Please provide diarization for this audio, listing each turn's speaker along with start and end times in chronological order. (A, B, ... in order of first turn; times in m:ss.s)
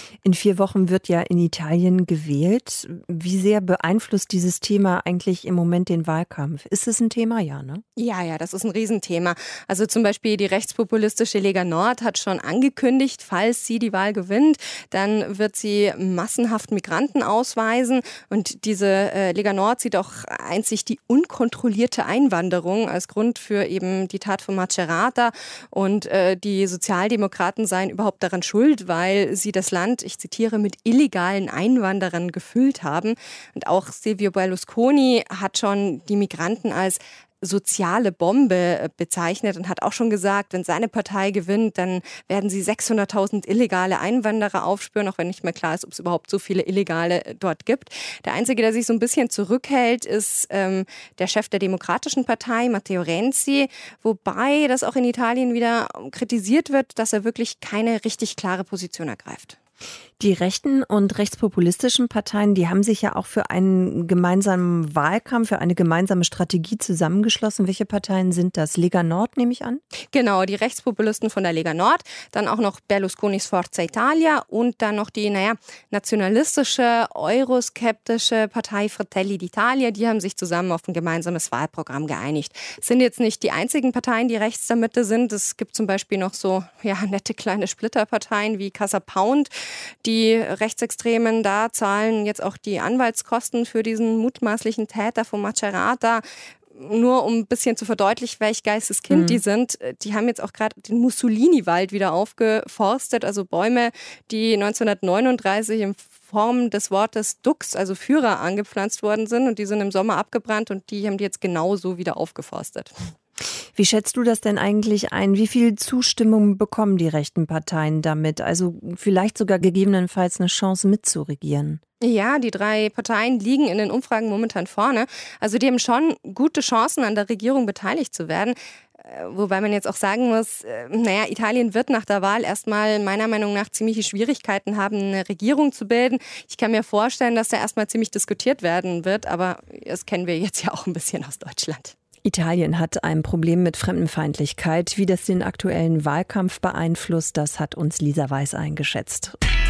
0:00.2-0:07.8 A
0:08.0-0:59.6 B
1:00.2-1:09.8 A
1:10.1-1:52.9 B
1:39.1-1:39.4 A
1:53.8-2:01.8 A
2:02.0-2:22.0 B
2:22.2-2:29.4 A